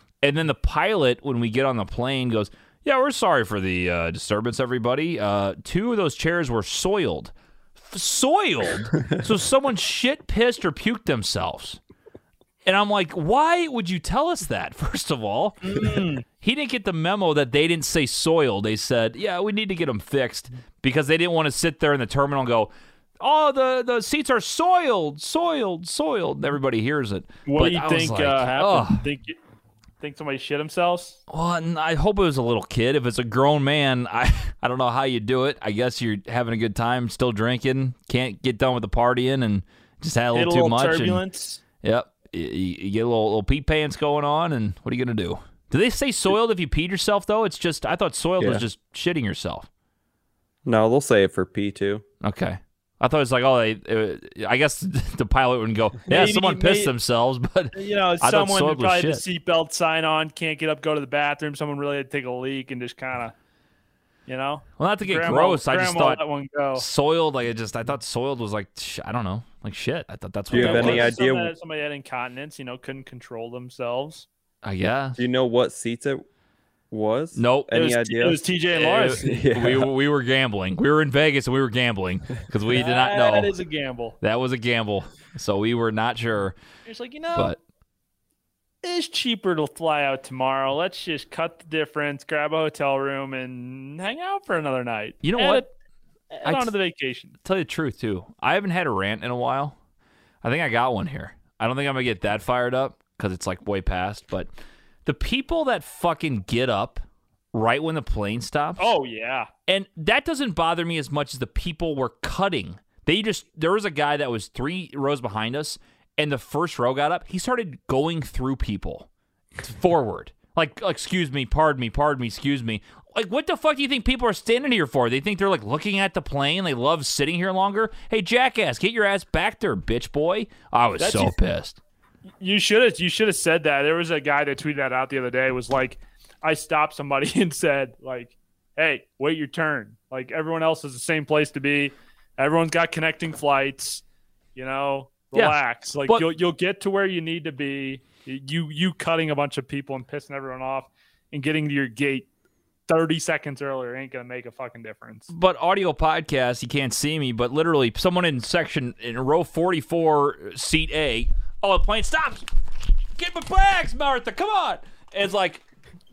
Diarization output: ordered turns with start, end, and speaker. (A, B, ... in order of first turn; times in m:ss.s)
0:00.2-0:11.8 A
0:12.6-0:29.0 A
0:15.6-0:16.2 B
0:27.4-0:29.4 B
0:30.0-0:31.2 B
0:31.3-0:41.2 A
0:40.3-0:41.6 B
0:41.8-0:49.7 A
0:50.6-0:52.0 C
0:52.2-0:59.2 A
0:56.1-0:56.9 B
0:57.7-1:03.3 B
1:04.3-1:06.8 B
1:04.8-1:06.2 A
1:06.7-1:11.2 A
1:10.5-1:14.3 B
1:10.5-1:11.5 C
1:14.6-1:15.2 A
1:15.2-1:16.2 C
1:16.9-1:18.4 C
1:17.3-1:17.9 A
1:17.7-1:19.4 B
1:18.7-1:23.5 A
1:19.0-1:19.9 C
1:22.7-1:24.2 B
1:24.2-1:26.6 A
1:26.8-1:27.5 B
1:28.8-1:35.7 B
1:35.2-1:35.6 A
1:36.3-1:37.3 B
1:36.4-1:36.7 A
1:37.4-1:39.7 A
1:40.4-1:44.5 A
1:45.0-1:48.9 A
1:48.8-1:49.5 B
1:49.7-1:59.1 A
1:59.6-2:11.8 A
2:11.0-2:11.4 B
2:12.4-2:24.0 B
2:24.6-2:32.3 B
2:25.3-2:26.2 A
2:32.9-2:35.3 B
2:35.3-2:42.5 A
2:43.2-2:45.6 A